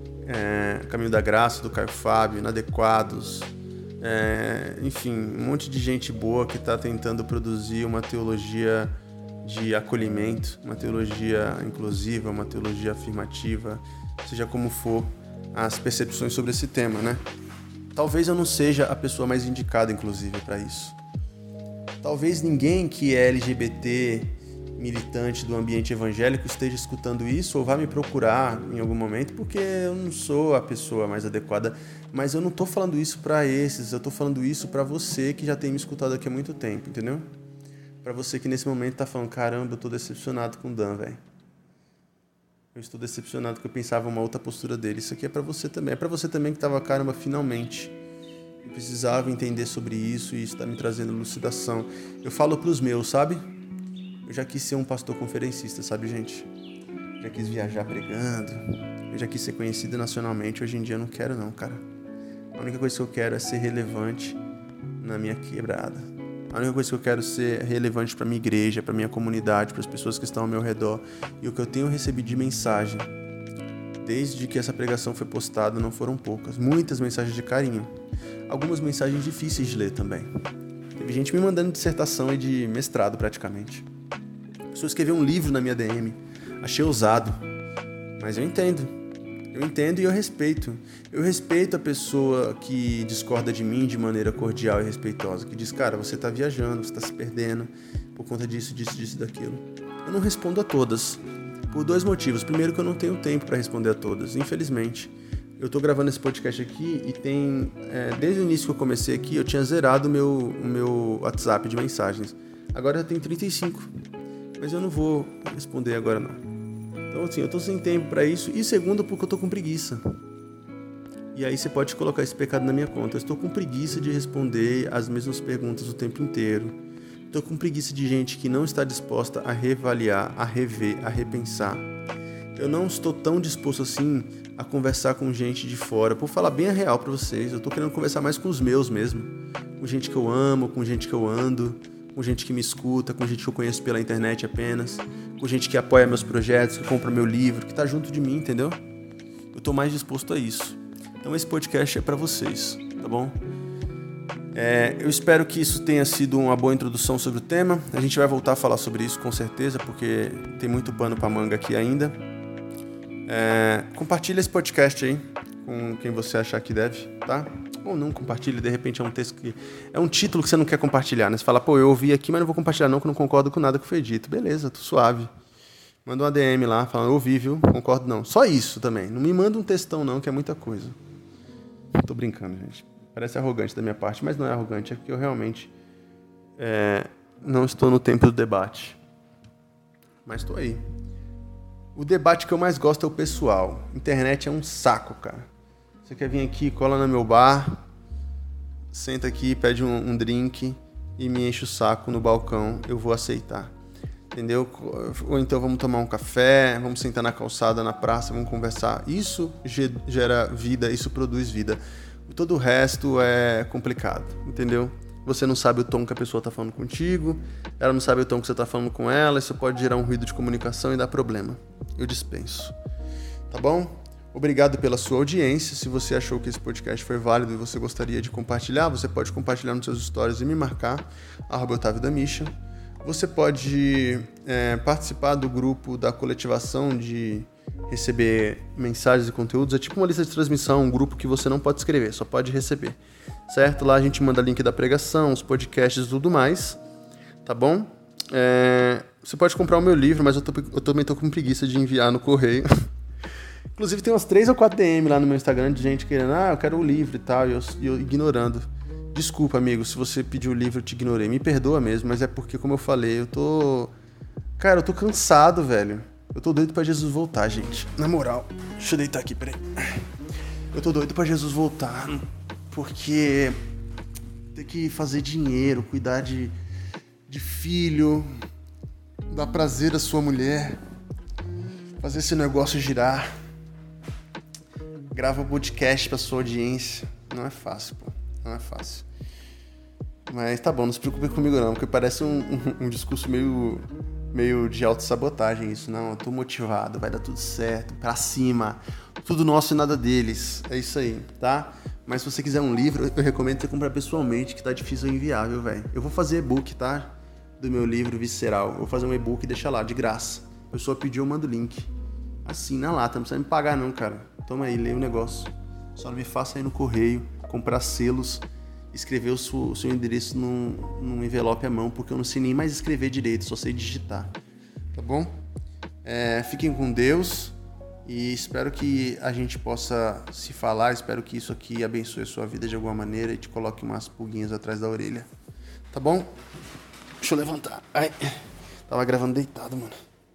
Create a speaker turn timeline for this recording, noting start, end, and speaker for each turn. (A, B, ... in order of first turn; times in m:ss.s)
0:00.3-0:08.9 A
0:09.4-0:17.2 A
0:17.9-0:21.0 A
0:22.0-0:37.2 A
0:38.0-0:41.2 A
0:42.7-0:47.9 A
0:48.6-0:53.4 A
0:54.2-0:56.5 A
0:57.2-1:01.8 A
1:02.6-1:04.4 A
1:05.0-1:13.1 A
1:14.0-1:17.9 A
1:18.5-1:20.3 A
1:21.0-1:23.9 A
1:24.7-1:27.4 A
1:28.2-1:28.9 A
1:29.5-1:53.9 A
1:54.6-1:56.4 A
1:57.1-2:00.0 A
2:01.3-2:06.8 A
2:07.3-2:11.9 A
2:12.6-2:28.8 A
2:29.5-2:33.4 A
2:34.5-2:42.2 A
2:43.3-2:55.3 A
2:56.0-3:01.0 A
3:02.0-3:05.7 A
3:06.6-3:09.0 A
3:10.2-3:10.8 A
3:12.0-3:15.5 A
3:16.0-3:17.8 A
3:18.9-3:23.7 A
3:24.3-3:42.8 A
3:43.5-3:52.5 A
3:53.0-4:06.8 A
4:07.4-4:12.7 A
4:13.8-4:23.9 A
4:24.6-4:30.1 A
4:30.7-4:33.6 A
4:34.5-4:36.6 A
4:37.3-4:38.3 A
4:39.3-4:40.8 A
4:42.0-4:43.3 A
4:45.1-4:49.1 A
4:50.3-5:11.9 A
5:12.4-5:24.4 A
5:24.9-5:25.3 A
5:26.0-5:27.6 A
5:28.1-5:35.3 A
5:35.9-5:36.3 A
5:37.2-5:40.0 A